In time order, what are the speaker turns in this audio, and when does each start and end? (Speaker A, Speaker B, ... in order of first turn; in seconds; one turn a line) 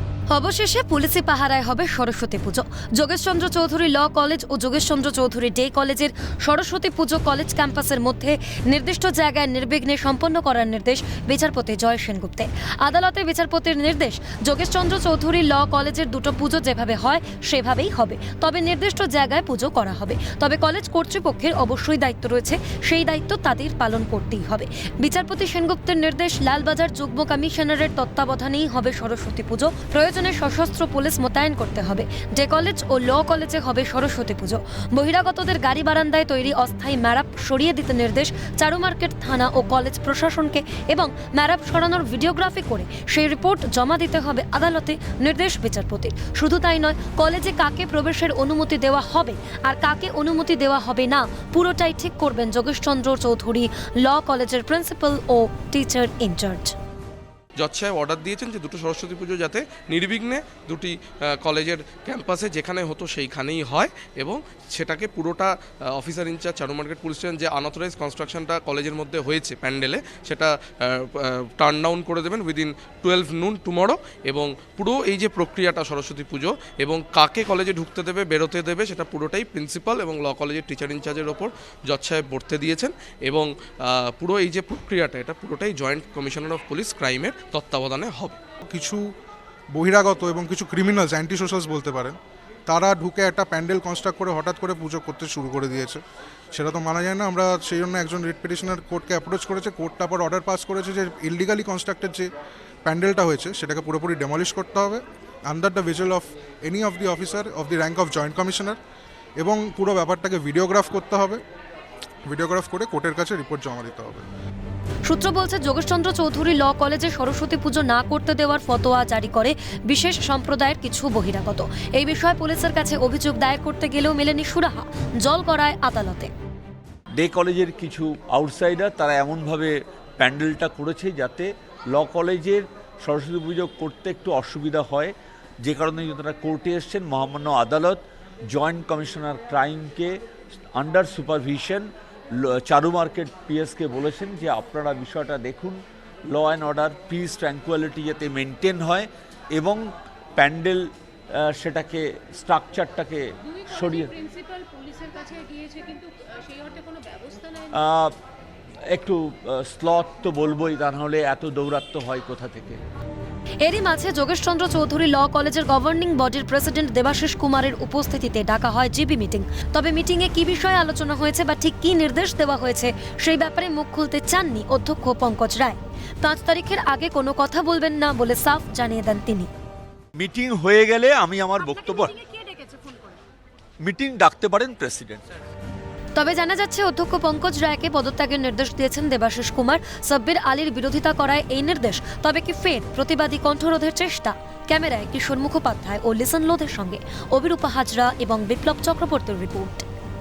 Speaker A: 0.3-56.7
Speaker B: 57.6-88.4
Speaker C: 88.6-89.1
Speaker C: 89.7-102.3
Speaker C: 102.8-108.8
Speaker C: 109.4-111.4
Speaker C: 112.3-114.2
Speaker A: 115.1-126.3
Speaker D: 127.2-140.2
Speaker D: 140.7-154.1
Speaker E: 153.4-157.8
Speaker D: 157.7-158.2
Speaker D: 158.9-162.8
Speaker A: 163.6-179.5
Speaker D: 180.2-182.1
Speaker E: 181.6-183.2
Speaker D: 183.8-185.3
Speaker A: 186.2-199.8